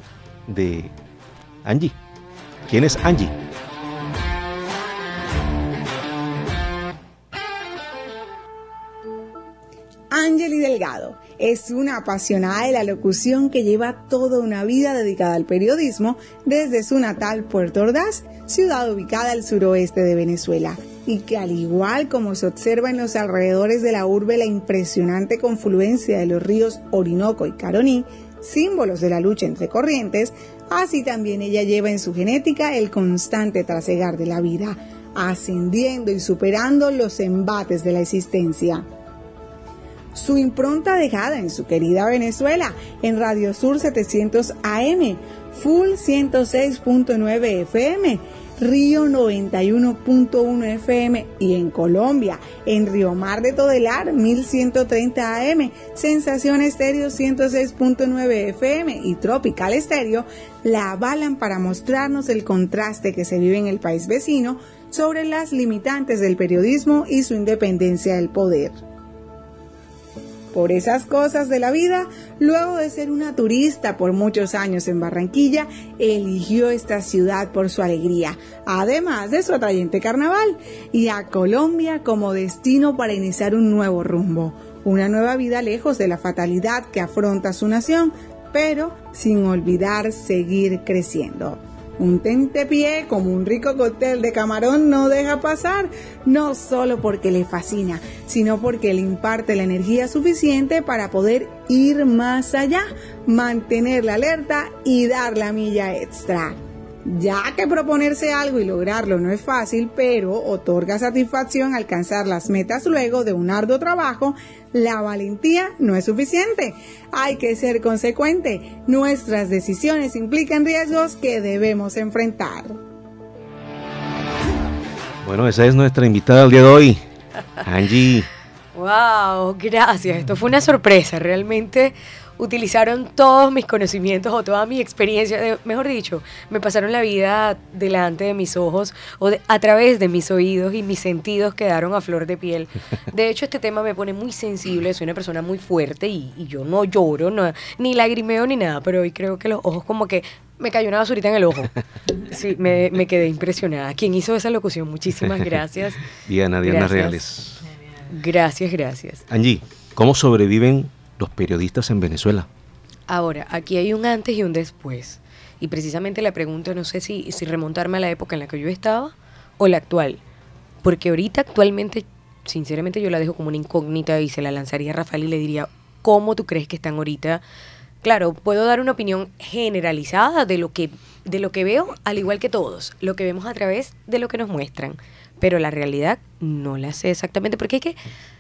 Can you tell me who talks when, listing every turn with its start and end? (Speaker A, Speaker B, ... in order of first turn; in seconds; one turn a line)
Speaker A: 0.5-0.9
Speaker A: 1.6-1.9
Speaker A: 2.7-3.3
Speaker B: 10.1-38.8
Speaker B: 40.1-68.8
Speaker B: 70.5-106.6
Speaker B: 107.1-122.8
Speaker A: 125.2-127.0
Speaker A: 127.6-128.3
Speaker C: 128.7-157.2
Speaker A: 156.2-157.6
Speaker C: 158.1-159.2
Speaker A: 159.3-162.5
Speaker C: 163.1-170.2
Speaker C: 170.8-177.4
Speaker C: 178.0-187.9